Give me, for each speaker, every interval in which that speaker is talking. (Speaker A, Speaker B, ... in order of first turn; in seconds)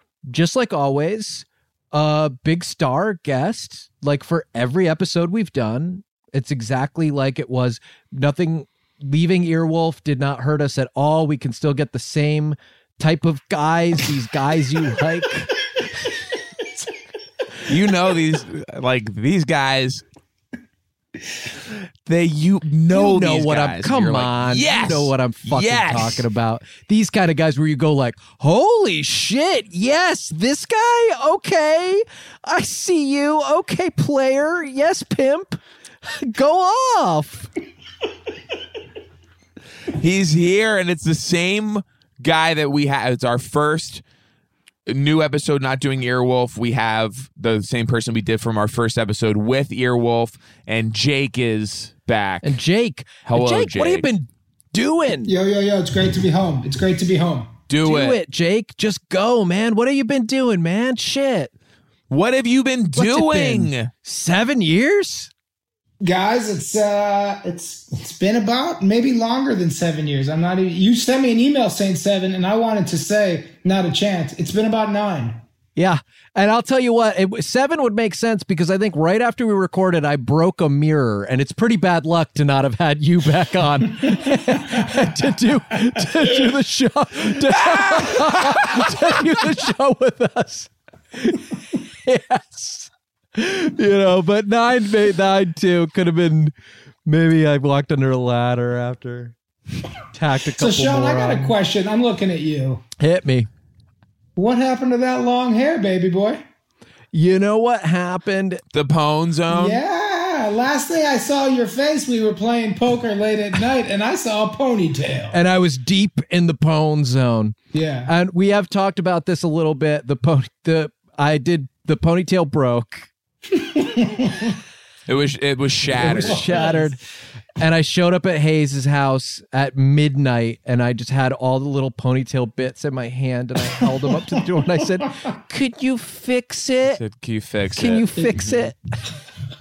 Speaker A: 0.3-15.5, 22.9-37.5, 52.4-55.3, 57.8-61.5, 63.0-65.3, 75.8-96.5, 97.0-99.3, 100.1-101.6, 103.0-103.5, 107.1-108.6, 115.3-117.6, 118.1-123.1, 126.0-127.0, 127.6-137.0, 137.7-138.8
Speaker B: 17.7-20.0, 22.1-26.2, 39.9-44.0, 44.9-52.6, 53.3-54.1, 57.7-58.2, 62.1-63.9, 108.7-109.8, 125.1-126.5, 136.9-138.7
Speaker C: 55.3-57.5, 66.0-75.4, 100.6-102.8, 104.4-106.4, 109.5-115.4, 117.7-118.1, 123.6-124.5, 125.9-126.9